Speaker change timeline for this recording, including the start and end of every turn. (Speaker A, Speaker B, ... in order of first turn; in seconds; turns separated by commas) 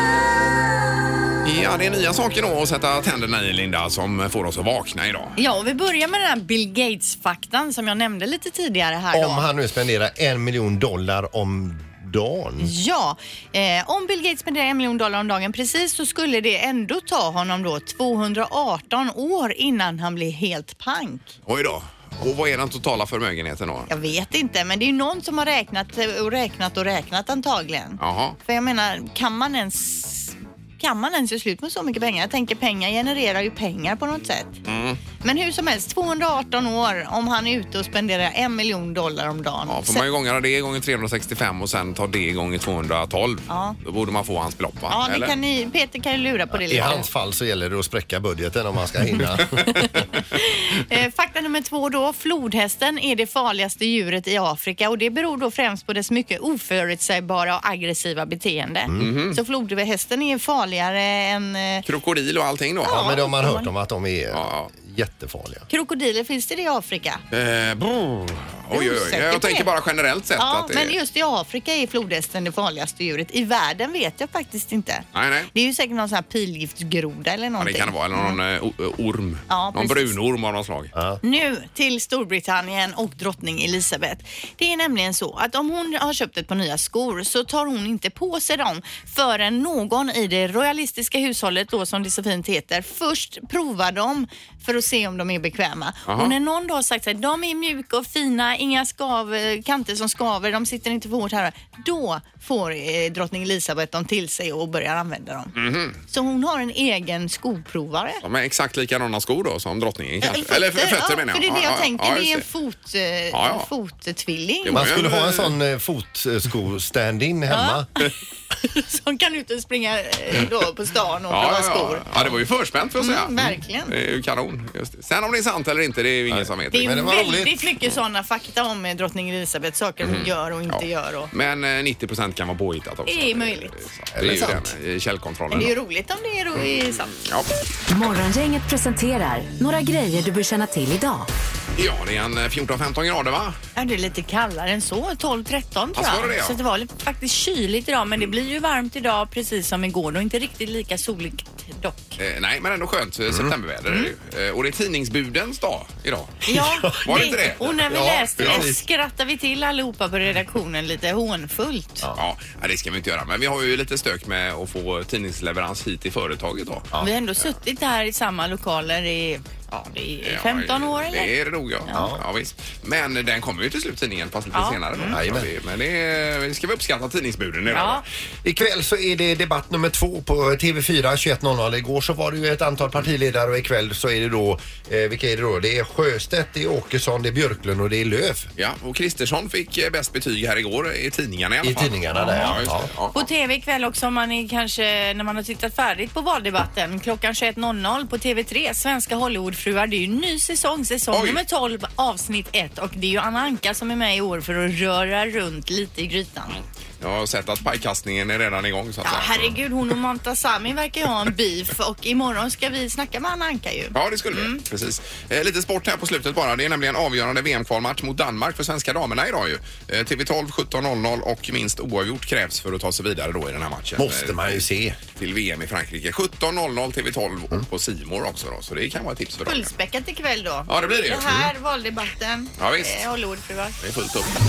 Speaker A: 1.4-5.4, Speaker B: 5.4-9.5, Speaker C: 9.1-12.7, Speaker B: 12.6-21.3, Speaker A: 21.5-23.9, Speaker B: 23.9-34.6, Speaker A: 28.0-28.4, Speaker A: 34.6-35.0, Speaker B: 35.2-40.0, Speaker A: 39.7-45.3, Speaker B: 43.5-43.8, Speaker B: 44.9-47.1, Speaker C: 46.5-50.0, Speaker B: 50.3-61.9, Speaker C: 58.9-59.2, Speaker A: 59.0-59.4, Speaker A: 61.9-63.0, Speaker B: 62.8-63.7, Speaker C: 62.9-65.7, Speaker A: 64.3-64.7, Speaker B: 65.7-67.2, Speaker A: 67.3-71.0, Speaker B: 68.7-69.7, Speaker B: 70.4-78.4, Speaker A: 75.1-75.5, Speaker A: 77.6-80.9, Speaker B: 79.5-80.2, Speaker C: 81.0-81.2, Speaker B: 81.2-105.5, Speaker A: 96.1-96.3, Speaker A: 105.5-106.0, Speaker B: 106.1-108.2, Speaker A: 108.2-112.5, Speaker B: 110.2-115.0, Speaker A: 113.3-113.7, Speaker A: 114.7-115.5, Speaker C: 114.7-117.9, Speaker B: 117.5-118.1, Speaker B: 118.6-122.3, Speaker A: 121.3-126.9, Speaker B: 123.0-123.9, Speaker C: 126.3-127.6, Speaker B: 126.7-131.3, Speaker A: 130.0-135.7, Speaker B: 133.1-133.8, Speaker C: 134.2-134.7, Speaker B: 135.5-137.2, Speaker A: 137.2-137.5, Speaker D: 137.9-141.3, Speaker A: 141.8-143.6, Speaker B: 143.8-152.2, Speaker A: 146.0-146.6, Speaker A: 152.2-157.8, Speaker B: 156.5-162.1, Speaker C: 156.5-158.8, Speaker A: 158.4-158.7, Speaker A: 162.2-167.5, Speaker B: 167.0-171.3, Speaker A: 170.2-178.1, Speaker C: 171.9-172.2, Speaker B: 174.5-175.2, Speaker C: 175.1-175.5, Speaker B: 177.7-178.0, Speaker C: 178.4-188.5, Speaker A: 188.6-193.3, Speaker C: 191.6-192.9, Speaker B: 192.2-192.6, Speaker B: 193.1-206.6, Speaker A: 201.1-201.4, Speaker A: 207.0-209.9, Speaker B: 209.0-214.6, Speaker A: 213.9-224.6, Speaker C: 224.0-225.0, Speaker A: 225.2-229.7, Speaker B: 229.5-233.8, Speaker A: 230.7-231.5, Speaker A: 232.6-233.0, Speaker A: 233.8-234.3